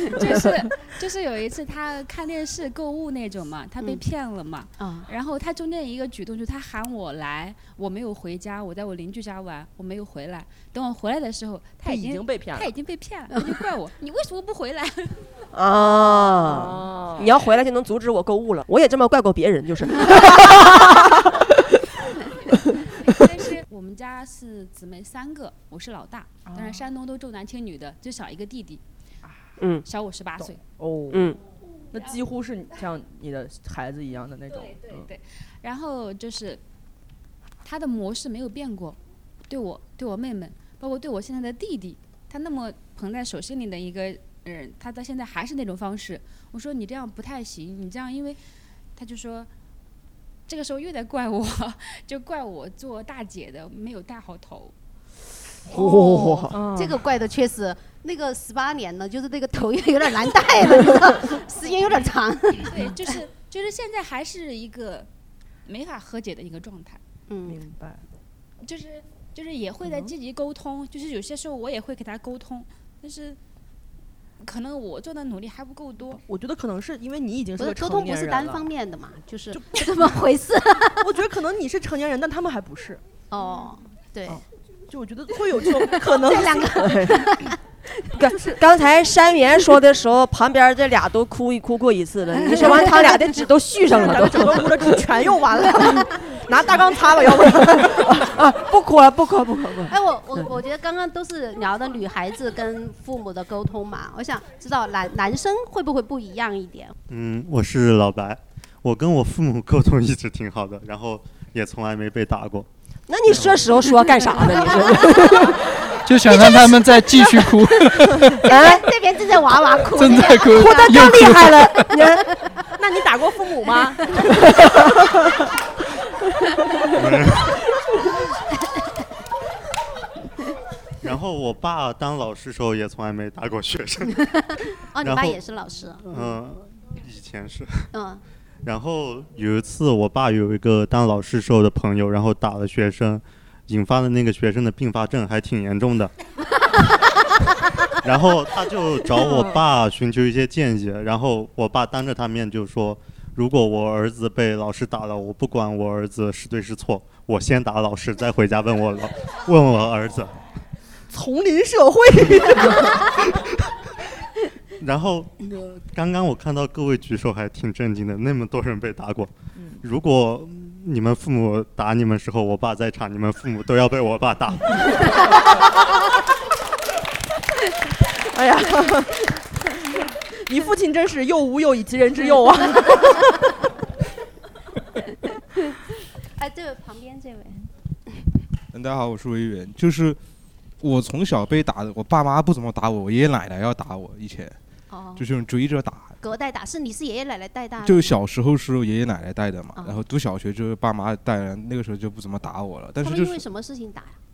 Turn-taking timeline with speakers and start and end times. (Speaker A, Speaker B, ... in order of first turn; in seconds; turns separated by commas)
Speaker A: 0.1-15.3, Speaker B: 4.8-5.1, Speaker C: 11.8-12.7, Speaker B: 13.3-13.6, Speaker D: 15.5-21.7, Speaker C: 16.4-17.3, Speaker A: 23.0-28.8, Speaker C: 26.5-26.9, Speaker D: 29.6-29.9, Speaker A: 29.9-30.6, Speaker C: 30.4-31.4, Speaker D: 31.1-31.4, Speaker C: 31.9-35.1, Speaker A: 34.6-36.6, Speaker A: 37.6-48.4, Speaker A: 49.0-49.5, Speaker A: 50.5-54.7, Speaker D: 55.7-56.6, Speaker B: 55.7-63.1, Speaker C: 56.5-56.9, Speaker A: 62.6-65.1, Speaker A: 65.7-67.0, Speaker B: 67.3-67.6, Speaker C: 67.5-68.0, Speaker A: 68.6-73.4, Speaker C: 69.8-70.1, Speaker A: 74.4-76.2, Speaker C: 76.3-78.7, Speaker B: 77.6-81.1, Speaker C: 79.5-79.9, Speaker C: 81.0-83.0, Speaker B: 83.3-84.4, Speaker C: 84.3-86.7, Speaker B: 85.8-87.6, Speaker D: 86.8-87.3, Speaker D: 88.1-95.0, Speaker C: 88.3-88.6, Speaker B: 92.5-93.3, Speaker C: 93.9-98.1, Speaker D: 97.8-100.5, Speaker B: 99.9-107.0, Speaker E: 107.1-112.7, Speaker D: 113.1-115.7, Speaker F: 116.0-118.4, Speaker D: 118.4-118.9, Speaker B: 118.5-122.6, Speaker F: 120.0-121.9, Speaker D: 120.4-122.3, Speaker C: 122.8-124.5, Speaker E: 127.0-127.6, Speaker E: 131.0-134.2, Speaker B: 134.2-136.3, Speaker E: 135.0-135.4, Speaker E: 136.1-137.9, Speaker B: 137.9-138.2, Speaker E: 138.7-146.1, Speaker E: 148.0-160.3, Speaker C: 161.1-163.1, Speaker E: 164.8-175.1, Speaker C: 169.6-169.8, Speaker C: 178.2-179.4, Speaker C: 180.4-183.4, Speaker B: 186.3-187.7, Speaker G: 188.7-190.2, Speaker G: 190.8-194.6, Speaker B: 194.9-195.3, Speaker G: 195.2-196.2, Speaker B: 196.2-198.2, Speaker G: 197.8-203.4, Speaker B: 199.8-200.0, Speaker B: 203.0-204.2